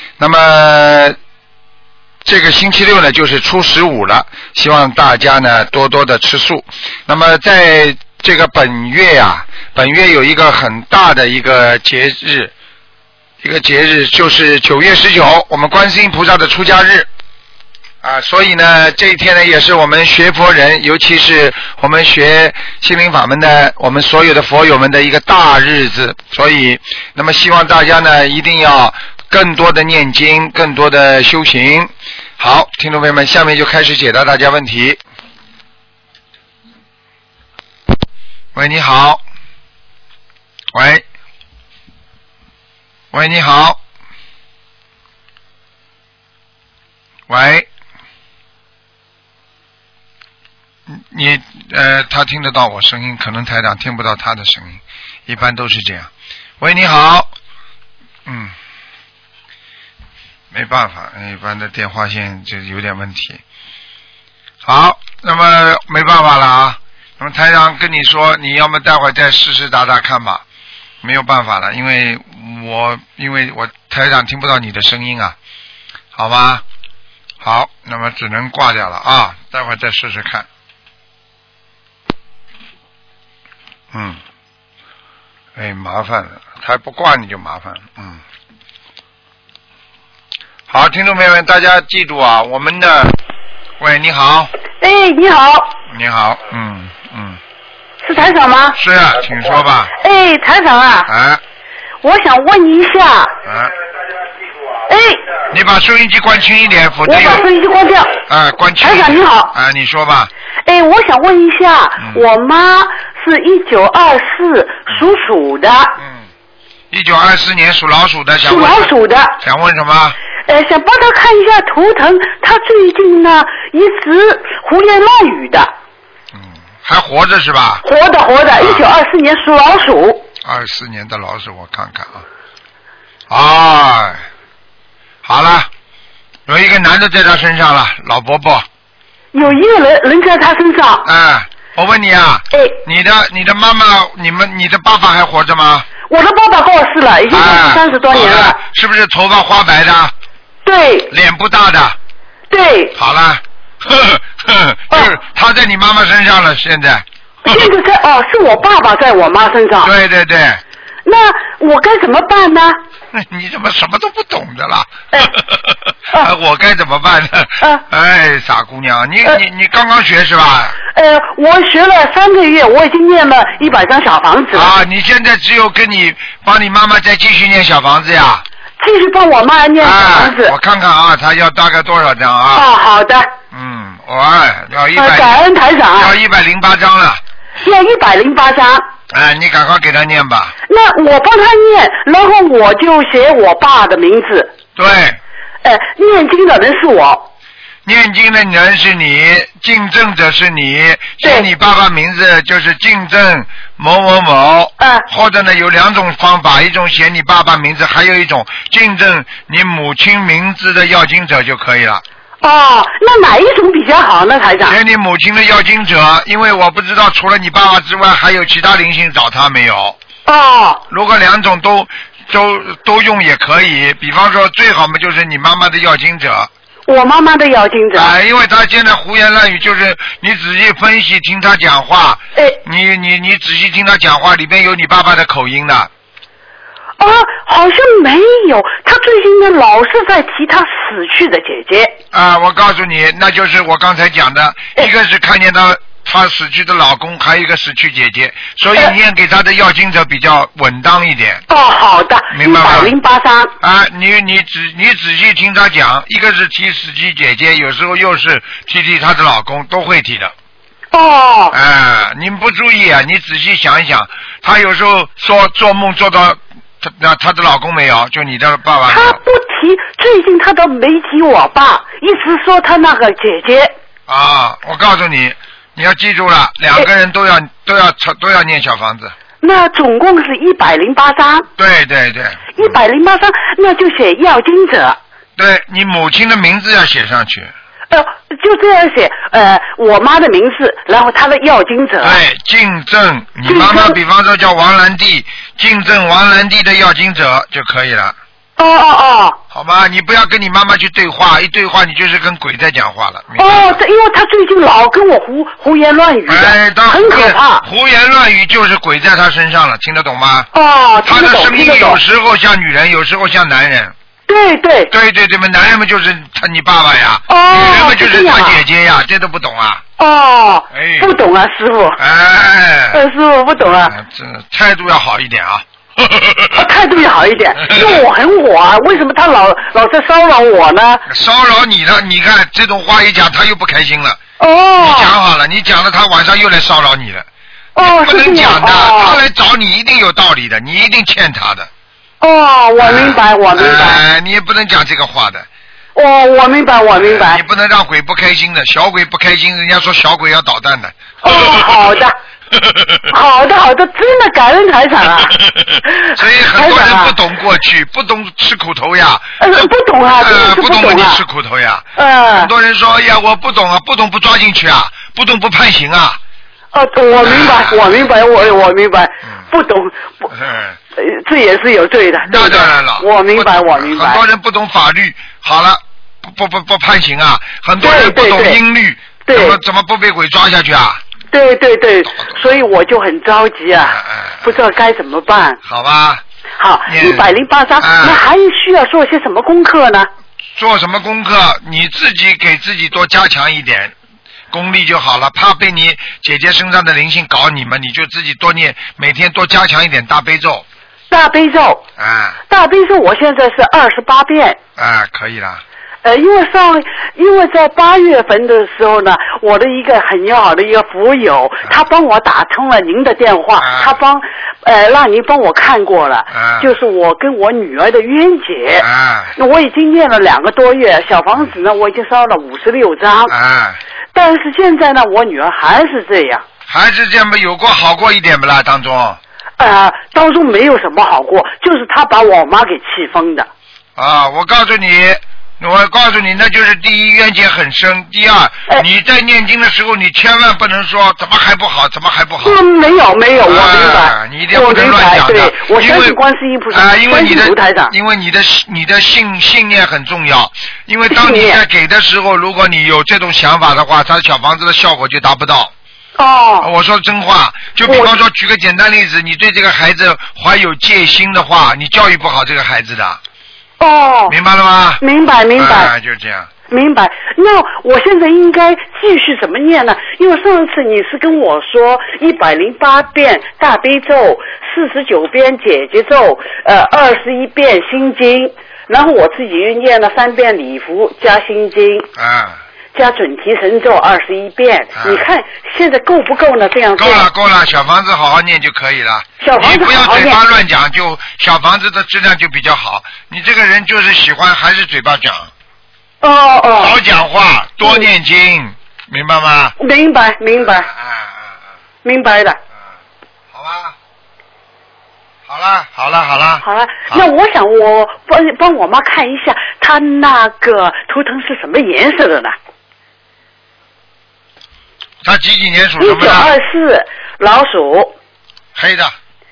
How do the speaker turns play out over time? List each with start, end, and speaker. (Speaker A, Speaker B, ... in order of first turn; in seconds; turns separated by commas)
Speaker A: 0.2-1.2, Speaker A: 2.2-12.5, Speaker A: 13.4-17.1, Speaker A: 18.0-35.0, Speaker A: 38.5-39.2, Speaker A: 40.7-41.0, Speaker A: 43.1-43.8, Speaker A: 47.3-47.7, Speaker A: 50.9-56.1, Speaker A: 56.6-57.3, Speaker A: 58.2-58.5, Speaker A: 60.5-63.4, Speaker A: 64.6-70.4, Speaker A: 71.0-75.3, Speaker A: 76.1-76.6, Speaker A: 77.4-80.5, Speaker A: 83.9-84.2, Speaker A: 85.5-88.2, Speaker A: 90.7-93.2, Speaker A: 93.8-94.5, Speaker B: 94.8-95.7, Speaker A: 95.9-97.4, Speaker B: 98.0-98.8, Speaker A: 98.7-99.9, Speaker B: 100.0-101.1, Speaker A: 101.1-101.4, Speaker B: 102.0-103.3, Speaker A: 103.4-103.7, Speaker B: 104.9-105.2, Speaker A: 105.5-107.5, Speaker B: 107.0-108.2, Speaker A: 108.3-110.3, Speaker B: 108.8-109.5, Speaker B: 110.7-116.0, Speaker A: 116.0-116.2, Speaker A: 116.9-120.2, Speaker B: 118.4-119.3, Speaker B: 120.5-125.7, Speaker A: 126.3-127.8, Speaker B: 127.8-130.2, Speaker A: 128.6-128.9, Speaker A: 130.4-132.2, Speaker A: 133.3-134.2, Speaker A: 135.2-135.7, Speaker A: 136.5-138.7, Speaker B: 139.3-141.1, Speaker A: 141.0-145.9, Speaker B: 142.5-142.8, Speaker B: 146.1-148.6, Speaker A: 147.3-150.1, Speaker B: 150.7-151.1, Speaker A: 151.1-151.9, Speaker B: 152.5-152.9, Speaker A: 152.9-157.7, Speaker B: 157.4-159.9, Speaker A: 159.8-160.6, Speaker B: 161.1-162.8, Speaker A: 163.1-170.8, Speaker B: 170.9-174.8, Speaker A: 174.5-178.4, Speaker B: 178.8-180.5, Speaker A: 179.8-182.7, Speaker B: 182.5-183.3, Speaker A: 183.5-185.4, Speaker B: 184.9-186.2, Speaker A: 185.9-187.2, Speaker B: 187.6-188.8, Speaker A: 189.1-190.5, Speaker B: 190.7-194.5, Speaker A: 194.8-195.2, Speaker B: 195.6-197.3, Speaker A: 197.8-212.0, Speaker B: 201.2-201.5, Speaker B: 204.8-205.1, Speaker B: 212.4-214.8, Speaker A: 214.7-219.9, Speaker B: 220.3-220.8, Speaker A: 220.9-226.5, Speaker B: 226.9-228.2, Speaker A: 227.9-235.9, Speaker B: 237.0-241.9, Speaker A: 242.1-251.4, Speaker B: 251.5-253.5, Speaker A: 252.3-252.9, Speaker A: 253.6-260.3, Speaker B: 260.9-261.6, Speaker A: 261.5-269.2, Speaker B: 268.9-273.7, Speaker A: 274.1-279.1, Speaker B: 279.4-281.5, Speaker A: 281.6-282.8, Speaker B: 282.6-285.0, Speaker A: 285.4-287.5, Speaker B: 287.9-292.2, Speaker A: 292.0-298.2, Speaker B: 293.5-294.0, Speaker B: 298.6-299.4, Speaker A: 299.5-303.8, Speaker B: 303.4-307.7, Speaker A: 306.3-310.5, Speaker B: 310.5-312.0, Speaker A: 311.0-313.9, Speaker B: 314.3-314.9, Speaker A: 314.9-319.8, Speaker B: 317.3-318.6, Speaker B: 320.0-322.0, Speaker A: 320.7-321.1, Speaker A: 322.0-323.0, Speaker B: 322.9-323.9, Speaker A: 323.6-326.7, Speaker B: 326.5-331.1, Speaker A: 327.6-328.1, Speaker A: 331.1-334.2, Speaker B: 334.4-335.1, Speaker A: 334.8-337.3, Speaker B: 337.8-339.2, Speaker A: 337.8-341.7, Speaker B: 342.2-344.0, Speaker A: 342.8-345.5, Speaker B: 346.0-347.4, Speaker A: 346.9-353.1, Speaker B: 351.2-352.2, Speaker B: 353.1-355.4, Speaker A: 355.1-366.2, Speaker B: 355.9-357.2, Speaker B: 359.4-361.2, Speaker B: 362.0-362.5, Speaker B: 366.7-370.3, Speaker A: 367.2-368.2, Speaker A: 370.3-370.8, Speaker B: 371.0-374.2, Speaker A: 372.2-381.0, Speaker B: 377.8-378.6, Speaker B: 379.3-379.6, Speaker B: 381.3-385.6, Speaker A: 382.1-382.6, Speaker A: 383.7-384.5, Speaker A: 385.6-386.2, Speaker B: 386.6-390.1, Speaker A: 386.9-388.3, Speaker A: 390.6-393.9, Speaker A: 394.5-400.6, Speaker B: 401.1-401.8, Speaker A: 402.0-402.4, Speaker B: 402.5-404.6, Speaker A: 404.8-405.6, Speaker B: 406.0-423.3, Speaker A: 413.6-414.0, Speaker A: 416.3-416.7, Speaker A: 418.8-419.4, Speaker A: 423.3-423.8, Speaker B: 424.1-426.4, Speaker A: 426.7-429.2, Speaker B: 429.6-433.5, Speaker A: 434.0-442.6, Speaker B: 442.4-447.9, Speaker A: 443.4-446.2, Speaker A: 446.7-455.7, Speaker B: 451.1-451.6, Speaker B: 456.2-456.7, Speaker A: 456.6-463.2, Speaker B: 457.9-458.2, Speaker B: 463.8-464.4, Speaker A: 464.3-465.0, Speaker B: 465.0-465.9, Speaker A: 465.6-466.5, Speaker B: 466.7-482.1, Speaker A: 482.2-482.6, Speaker B: 482.9-487.3, Speaker A: 485.0-485.3, Speaker A: 487.0-495.5, Speaker B: 489.4-490.4, Speaker B: 496.2-497.0, Speaker A: 496.8-499.8, Speaker B: 497.8-498.1, Speaker B: 499.8-500.9, Speaker A: 500.6-501.6, Speaker B: 502.0-502.6, Speaker A: 503.5-503.9, Speaker A: 505.5-507.3, Speaker B: 506.6-512.5, Speaker A: 515.2-516.5, Speaker B: 516.0-518.1, Speaker A: 518.8-519.1